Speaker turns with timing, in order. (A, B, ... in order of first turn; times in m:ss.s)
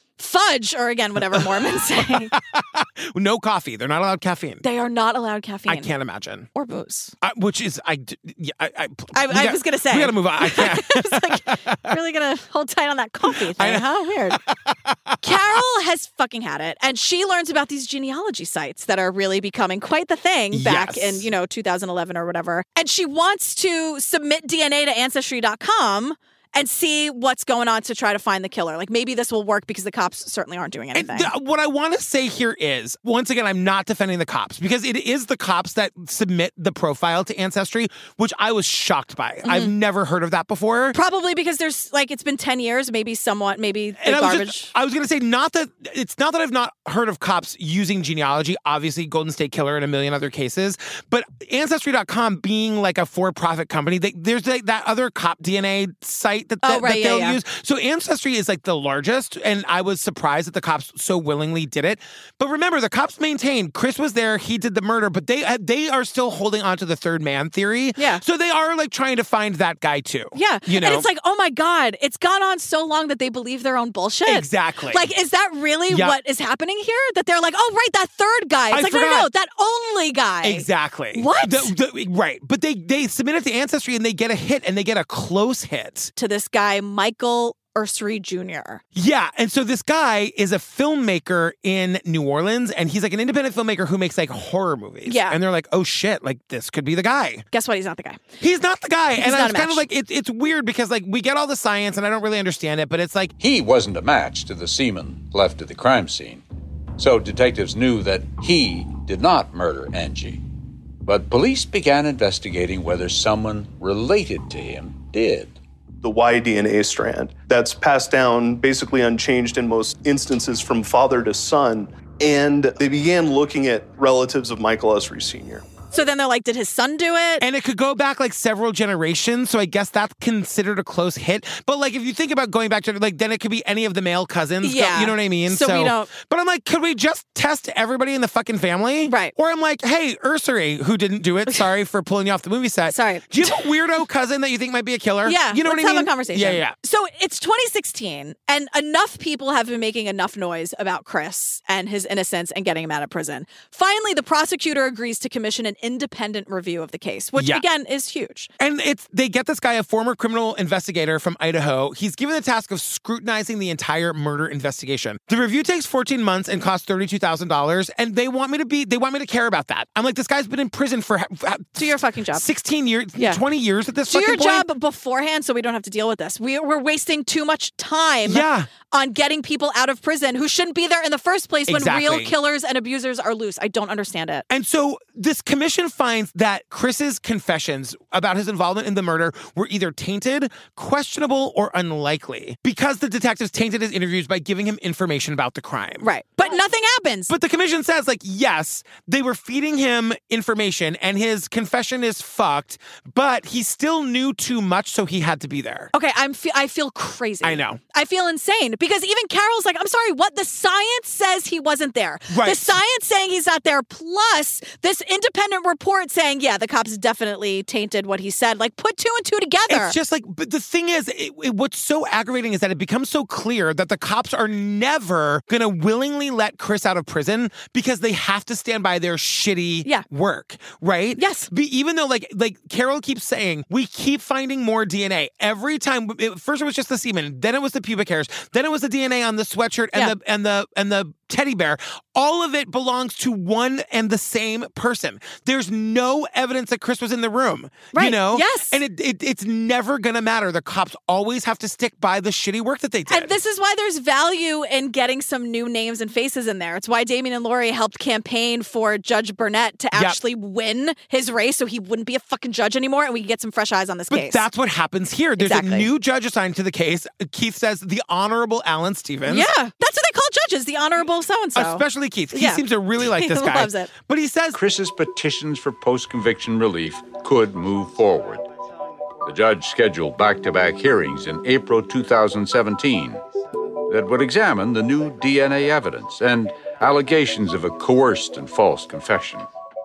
0:00.2-0:02.3 A
0:01.3-0:01.8 B
0:02.3-0:04.6 B
0:04.6-0:05.9 A
0:05.7-0:06.5 B
0:06.5-0:07.1 A
0:07.2-0:11.9 B
0:09.1-0:14.4 A
0:13.4-0:13.8 B
0:14.4-0:15.2 B
0:15.2-0:31.3 A
0:20.5-0:21.2 B
0:30.9-0:41.0 B
0:39.4-0:39.7 A
0:40.9-0:44.7 A
0:44.0-1:11.1 B
0:56.6-0:57.4 A
1:08.0-1:08.2 A
1:10.3-1:21.7 A
1:14.2-1:15.1 B
1:15.9-1:16.2 B
1:18.7-1:19.3 B
1:20.4-1:26.1 B
1:26.2-1:28.8 A
1:28.9-1:37.4 B
1:35.0-1:35.4 A
1:37.5-1:38.2 A
1:38.4-1:43.3 B
1:39.2-1:39.8 A
1:43.4-1:46.4 C
1:47.0-1:50.4 C
1:51.0-1:55.6 C
1:56.0-2:05.6 D
2:05.9-2:07.4 A
2:07.4-2:26.7 B
2:14.6-2:16.1 A
2:19.0-2:19.3 A
2:22.9-2:23.6 A
2:25.2-2:38.5 A
2:37.4-2:37.6 B
2:38.6-2:54.7 B
2:51.8-2:52.4 A
2:54.1-3:04.4 A
2:58.2-2:58.7 B
3:01.7-3:02.3 B
3:04.5-3:16.0 B
3:16.0-3:17.3 A
3:17.3-3:25.9 B
3:25.9-3:40.0 A
3:27.4-3:27.8 B
3:32.3-3:32.8 B
3:39.7-4:13.3 B
3:51.2-3:51.5 A
4:07.9-4:08.8 A
4:13.1-4:24.4 A
4:19.9-4:20.2 B
4:24.1-4:29.5 B
4:25.4-4:25.9 A
4:29.3-4:33.9 A
4:31.6-4:34.6 B
4:34.5-4:38.4 C
4:39.2-4:43.2 C
4:43.9-4:49.5 C